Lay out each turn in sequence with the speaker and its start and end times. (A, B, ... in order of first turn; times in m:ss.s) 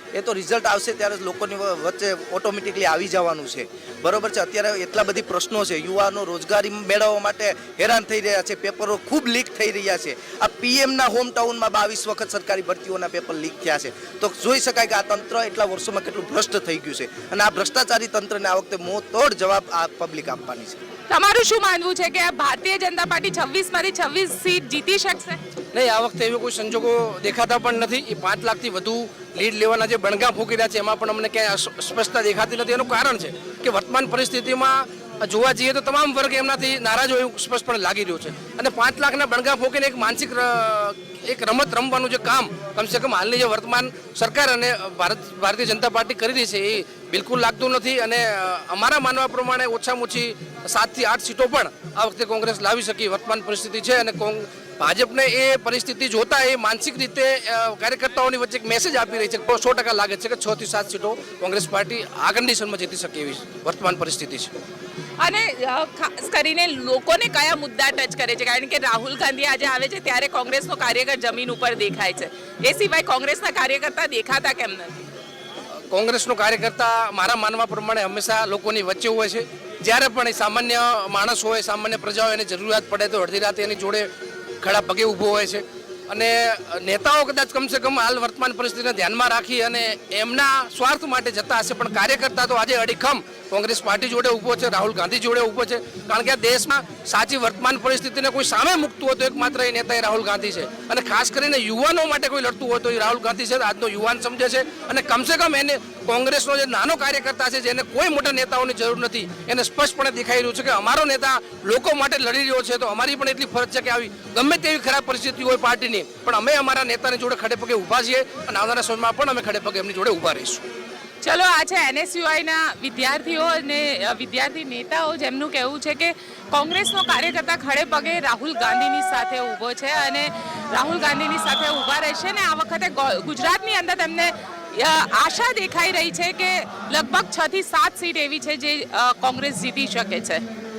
0:00.1-0:20.8 A
0:21.1-0:25.4 B
0:25.7-1:04.5 C
1:05.2-1:15.0 B
1:15.9-1:24.1 C
1:24.6-2:00.6 C
2:01.2-2:20.4 B